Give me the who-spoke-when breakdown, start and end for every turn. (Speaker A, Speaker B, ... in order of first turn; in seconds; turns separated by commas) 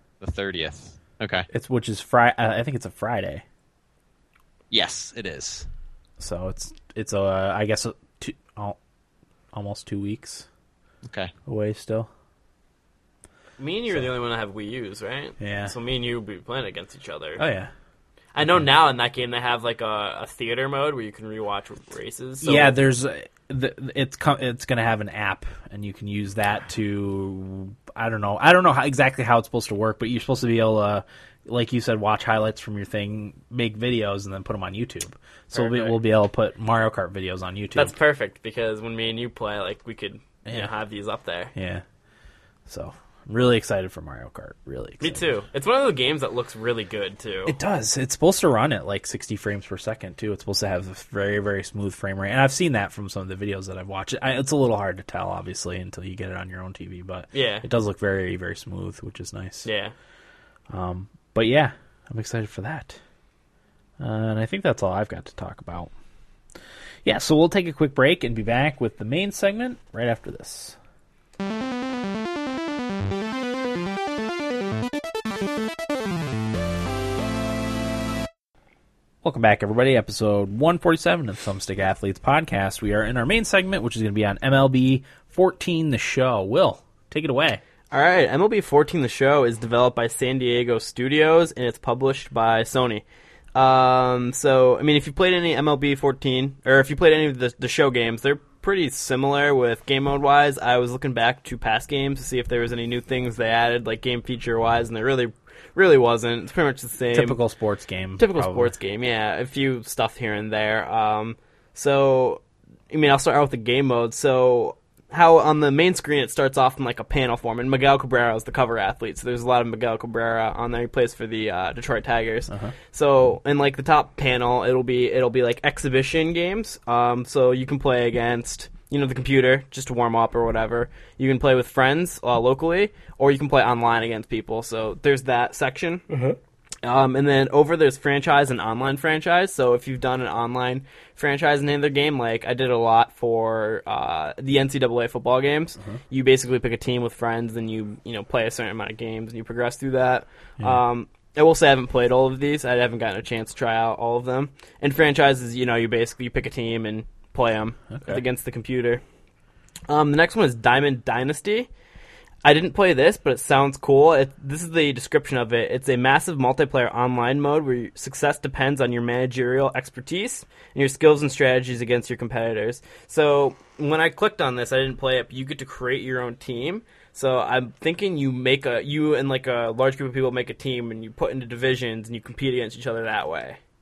Speaker A: 0.2-1.5, Speaker B: 1.5-3.4, Speaker A: 4.7-5.7, Speaker B: 6.2-8.8, Speaker B: 9.5-10.5, Speaker A: 11.1-11.3, Speaker B: 11.5-12.1, Speaker C: 13.6-17.4, Speaker B: 15.4-15.7, Speaker B: 17.4-17.7, Speaker C: 18.3-22.8, Speaker B: 22.4-38.0, Speaker C: 35.5-36.0, Speaker C: 37.7-41.5, Speaker B: 40.5-40.7, Speaker B: 41.5-41.8, Speaker B: 42.7-45.3, Speaker C: 45.0-47.5, Speaker B: 47.5-59.7, Speaker C: 57.3-57.6, Speaker C: 59.6-59.9, Speaker B: 60.7-63.0, Speaker B: 64.0-65.9, Speaker B: 67.0-70.8, Speaker B: 79.2-87.6, Speaker C: 87.9-93.0, Speaker C: 93.5-107.4, Speaker B: 107.1-108.7, Speaker C: 108.2-136.0, Speaker C: 136.8-159.0, Speaker C: 159.9-161.7, Speaker C: 162.4-183.6